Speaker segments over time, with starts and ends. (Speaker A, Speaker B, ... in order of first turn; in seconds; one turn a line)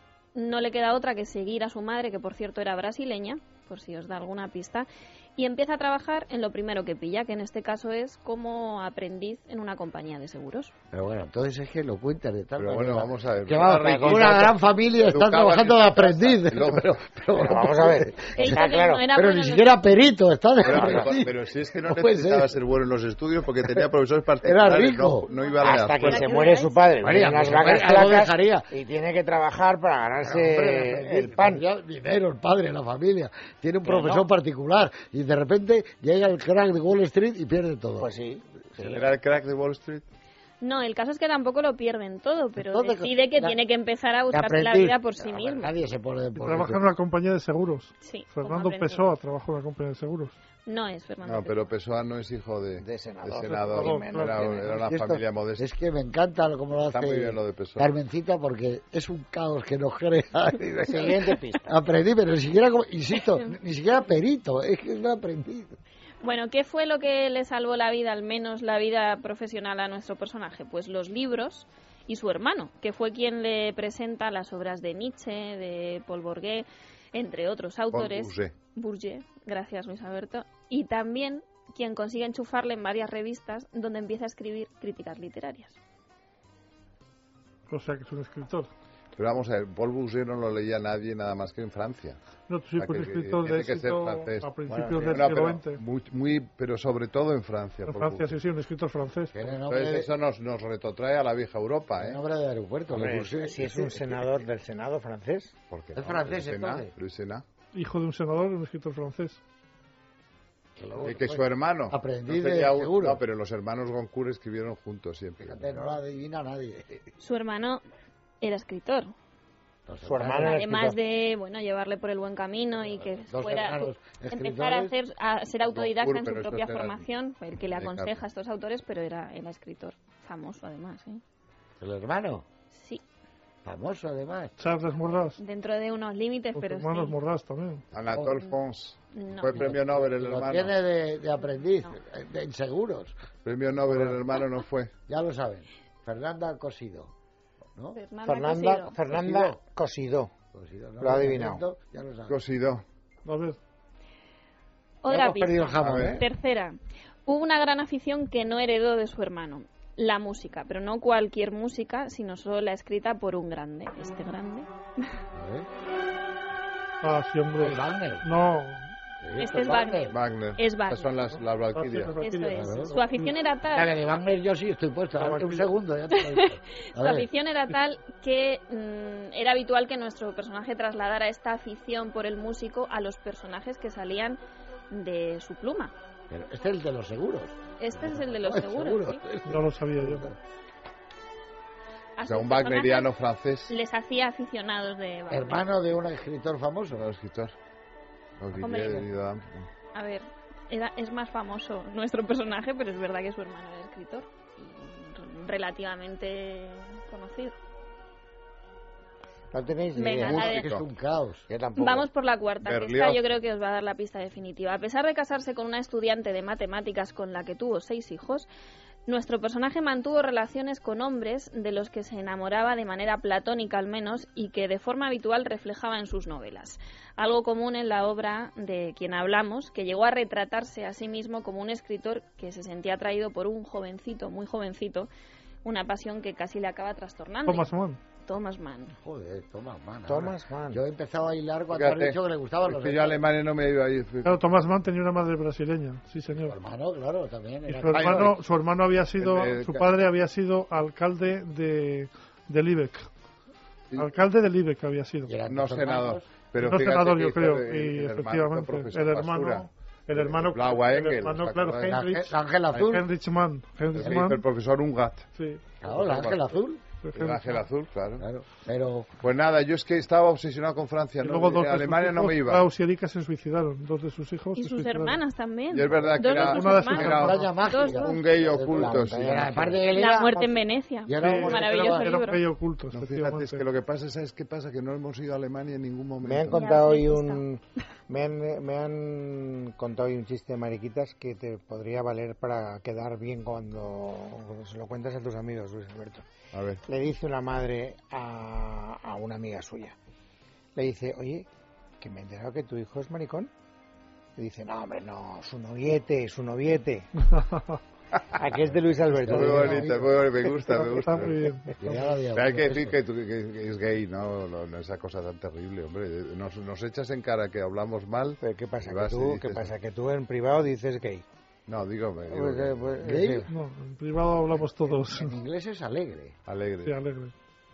Speaker A: 0.3-10.7
Speaker B: 10.9-22.5
Speaker C: 12.6-16.9
Speaker D: 17.4-19.0
Speaker A: 18.3-19.8
Speaker C: 20.6-26.3
Speaker D: 20.7-21.1
Speaker B: 24.4-25.3
Speaker A: 25.2-26.9
Speaker D: 25.6-31.6
Speaker B: 27.0-28.7
Speaker B: 30.2-38.1
Speaker D: 33.8-34.2
Speaker D: 38.0-39.0
Speaker B: 38.7-39.0
Speaker C: 38.9-40.1
Speaker A: 40.6-45.8
Speaker B: 42.6-43.6
Speaker B: 44.3-46.8
Speaker E: 46.4-50.3
Speaker A: 48.0-49.0
Speaker A: 50.7-51.7
Speaker C: 51.2-55.7
Speaker D: 52.8-54.8
Speaker E: 53.5-54.7
Speaker B: 54.8-65.8
Speaker C: 56.9-57.9
Speaker D: 60.7-61.6
Speaker A: 66.2-85.8
Speaker C: 77.9-78.5
Speaker E: 87.7-88.7
Speaker C: 89.2-92.2
Speaker E: 92.5-95.8
Speaker C: 92.8-94.5
Speaker D: 94.7-95.4
Speaker C: 95.0-98.4
Speaker E: 97.8-99.5
Speaker B: 99.3-100.1
Speaker C: 99.7-102.2
Speaker B: 102.0-104.3
Speaker D: 102.9-105.5
Speaker C: 105.7-107.4
Speaker B: 106.0-106.9
Speaker E: 107.7-109.4
Speaker B: 110.8-113.2
Speaker C: 111.0-116.0
Speaker B: 115.4-117.1
Speaker A: 117.2-117.8
Speaker A: 118.4-119.1
Speaker B: 119.9-120.6
Speaker D: 120.0-121.0
Speaker A: 120.3-131.2
Speaker B: 123.0-124.9
Speaker C: 125.7-127.1
Speaker C: 127.7-128.2
Speaker B: 131.8-132.4
Speaker A: 132.7-133.0
Speaker B: 133.6-134.7
Speaker E: 134.6-135.4
Speaker A: 135.4-137.1
Speaker E: 136.6-137.8
Speaker C: 137.9-140.7
Speaker B: 138.1-138.4
Speaker A: 139.1-139.7
Speaker B: 139.6-143.2
Speaker C: 143.4-144.9
Speaker B: 143.9-144.2
Speaker B: 145.1-147.1
Speaker A: 147.9-149.0
Speaker D: 148.2-150.3
Speaker B: 149.1-149.6
Speaker B: 150.5-152.4
Speaker D: 151.0-151.6
Speaker C: 152.3-152.8
Speaker E: 153.2-153.6
Speaker A: 155.0-165.2
Speaker B: 155.1-156.2
Speaker C: 155.8-156.2
Speaker B: 165.3-165.7
Speaker E: 167.0-168.9
Speaker B: 167.6-168.2
Speaker B: 169.2-170.1
Speaker A: 169.4-171.1
Speaker C: 170.1-172.1
Speaker E: 171.7-172.9
Speaker A: 172.2-173.9
Speaker B: 172.5-173.0
Speaker B: 173.7-177.3
Speaker E: 175.2-175.7
Speaker A: 176.1-184.4
Speaker A: 184.9-185.9
Speaker B: 186.3-190.4
Speaker A: 187.8-189.2
Speaker E: 189.4-190.3
Speaker A: 192.2-193.1
Speaker C: 192.2-193.7
Speaker A: 193.7-195.7
Speaker B: 195.3-197.1
Speaker C: 196.9-197.6
Speaker C: 198.4-199.7
Speaker A: 198.6-199.1
Speaker A: 199.9-207.6
Speaker D: 209.5-210.6
Speaker A: 209.9-210.7
Speaker B: 210.3-211.5
Speaker C: 210.5-210.8
Speaker D: 211.5-212.1
Speaker A: 211.8-218.5
Speaker C: 212.6-213.3
Speaker A: 219.1-235.1
Speaker A: 235.6-237.7
Speaker E: 237.4-238.0
Speaker A: 238.2-238.9
Speaker B: 239.0-243.2
Speaker D: 240.1-240.8
Speaker C: 241.7-244.5
Speaker E: 244.2-246.6
Speaker B: 246.3-248.3
Speaker E: 247.7-253.1
Speaker C: 247.9-248.4
Speaker C: 249.2-249.9
Speaker E: 254.0-255.3
Speaker B: 255.3-256.3
Speaker C: 255.4-262.0
Speaker E: 256.6-264.4
Speaker B: 261.9-263.1
Speaker C: 263.9-265.2
Speaker E: 265.3-265.6
Speaker B: 265.8-266.8
Speaker C: 265.8-266.6
Speaker E: 267.0-267.6
Speaker C: 267.1-268.2
Speaker B: 268.2-269.1
Speaker C: 269.2-272.6
Speaker E: 271.2-275.2
Speaker A: 274.6-278.2
Speaker C: 275.7-277.4
Speaker E: 276.3-277.5
Speaker B: 276.9-281.7
Speaker C: 278.0-279.8
Speaker D: 278.7-279.8
Speaker A: 279.9-282.4
Speaker E: 281.2-283.6
Speaker C: 282.9-286.7
Speaker D: 286.2-296.2
Speaker A: 286.5-287.4
Speaker C: 296.5-296.8
Speaker D: 296.9-299.9
Speaker D: 300.8-301.5
Speaker D: 302.0-303.5
Speaker D: 304.4-307.1
Speaker D: 308.3-310.1
Speaker B: 309.1-310.0
Speaker C: 309.2-311.4
Speaker E: 310.6-312.2
Speaker B: 311.8-312.9
Speaker C: 312.3-319.7
Speaker D: 318.4-321.2
Speaker C: 321.7-323.0
Speaker D: 322.3-323.5
Speaker B: 323.0-323.5
Speaker E: 323.5-325.3
Speaker B: 325.0-326.4
Speaker C: 326.4-326.9
Speaker E: 326.8-327.3